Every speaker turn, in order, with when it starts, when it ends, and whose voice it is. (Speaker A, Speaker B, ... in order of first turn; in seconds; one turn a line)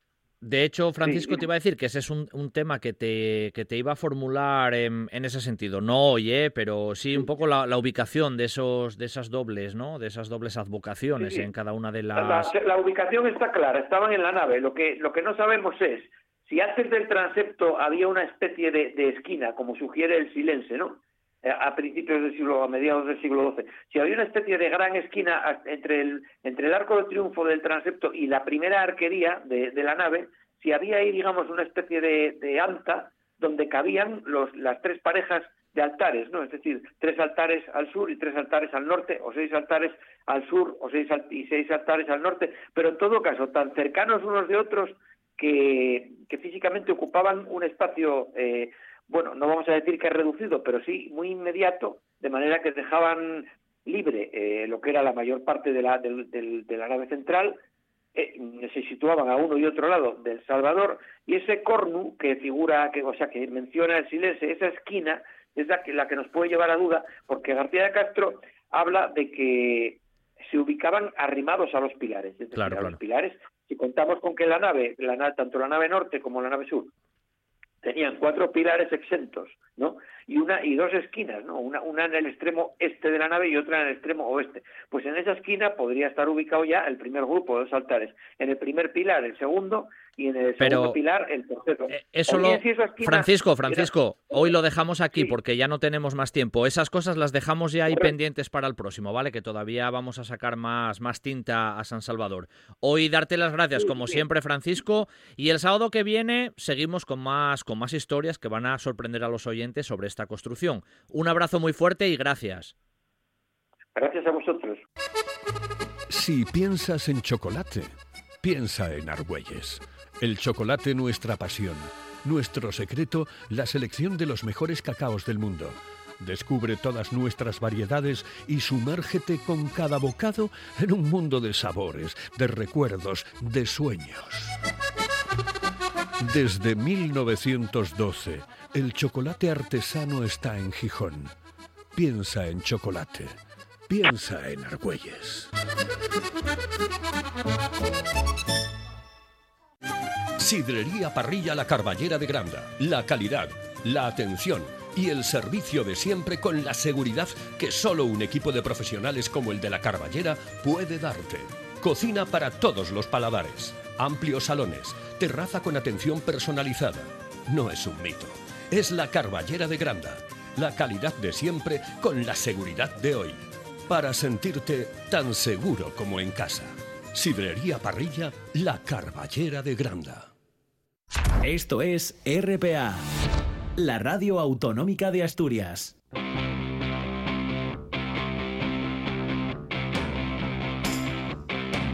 Speaker A: 0.4-12.5
Speaker B: 1.0-1.4
Speaker B: 11.2-11.5
Speaker B: 12.1-57.6
Speaker B: 58.1-76.9
Speaker A: 72.5-73.0
Speaker B: 77.8-94.5
Speaker A: 90.6-91.0
Speaker A: 91.9-112.7
Speaker B: 103.8-104.2
Speaker B: 114.0-114.8
Speaker C: 116.1-134.6
Speaker C: 136.2-141.3
Speaker C: 141.9-145.5
Speaker C: 150.4-180.3
Speaker D: 181.4-183.0
Speaker D: 183.8-186.0